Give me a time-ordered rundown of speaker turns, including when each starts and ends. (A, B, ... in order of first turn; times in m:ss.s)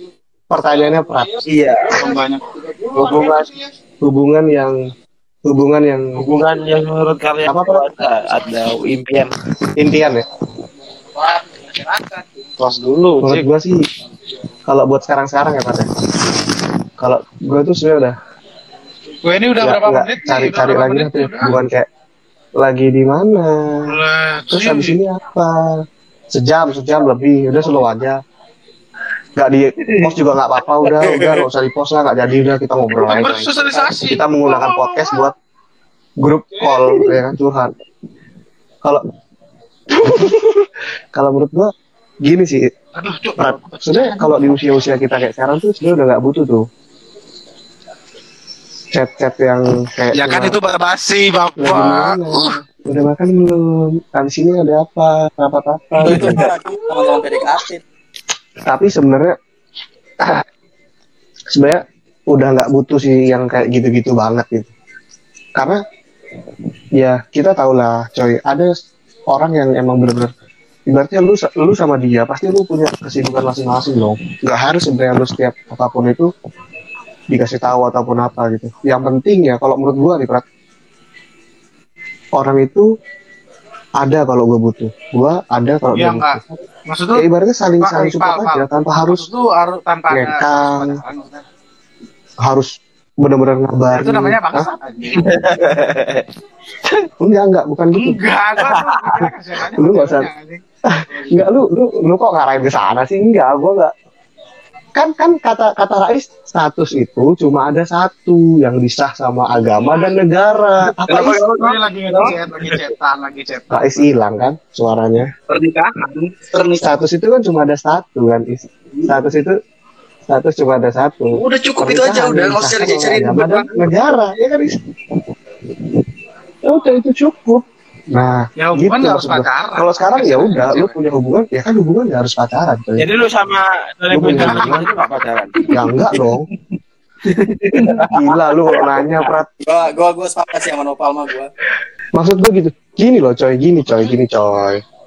0:00.5-0:01.4 A
0:01.4-0:02.0 B
0:01.9-0:03.4 C
0:02.9-0:03.5 B
0:04.0-0:04.8 A
0:05.4-0:06.0 A
0:06.2-0:09.3 B
0:07.4-0:07.9 A
0:09.8-0:10.2 A
0:11.6-0:12.2 C
0:12.6-0:13.2 B
0:13.2-0:13.8 A
0:14.7-0:15.9 A
0:17.0-0:18.2 A
0:19.2-0:21.6 C
0:19.6-0:21.9 A
0:22.6-0:24.0 A
0:23.8-0:25.0 C
0:24.5-0:25.7 A
0:26.3-0:28.2 A
0:29.4-0:33.5 A
0:32.9-0:35.2 C
0:34.1-0:35.3 A
0:36.2-0:37.7 A
0:39.9-0:41.7 A
0:42.2-0:42.7 A
0:43.0-0:44.5 C
0:43.4-0:46.6 A
0:48.9-0:50.6 A
0:50.1-0:52.5 C
0:51.6-0:56.4 A
0:55.9-0:57.8 D
0:58.6-0:59.3 A
1:01.5-1:04.7 A
1:07.0-1:08.7 A
1:09.3-1:10.3 A
1:10.9-1:16.3 A
1:17.3-1:20.4 A
1:22.3-1:22.9 A
1:24.0-1:26.6 A
1:25.9-1:27.2 C
1:27.1-1:29.3 A
1:27.8-1:31.4 C
1:30.1-1:31.0 A
1:32.4-1:32.7 A
1:33.2-1:34.7 A
1:33.9-1:35.4 C
1:35.2-1:36.2 B
1:37.2-1:38.2 A
1:37.9-1:41.4 C
1:39.2-1:40.3 A
1:40.9-1:43.9 A
1:45.0-1:51.4 A
1:49.6-1:50.2 C
1:51.0-1:52.4 E
1:51.1-1:54.1 C
1:53.7-1:55.3 A
1:55.5-1:56.9 E
1:56.8-1:59.5 A
2:00.3-2:04.8 A
2:01.3-2:03.8 E
2:06.6-2:13.0 A
2:08.6-2:11.0 C
2:13.0-2:16.2 B
2:14.1-2:14.9 A
2:15.7-2:16.4 A
2:17.6-2:18.2 B
2:17.8-2:19.5 A
2:18.7-2:19.0 B
2:19.6-2:21.5 D
2:22.1-2:24.8 A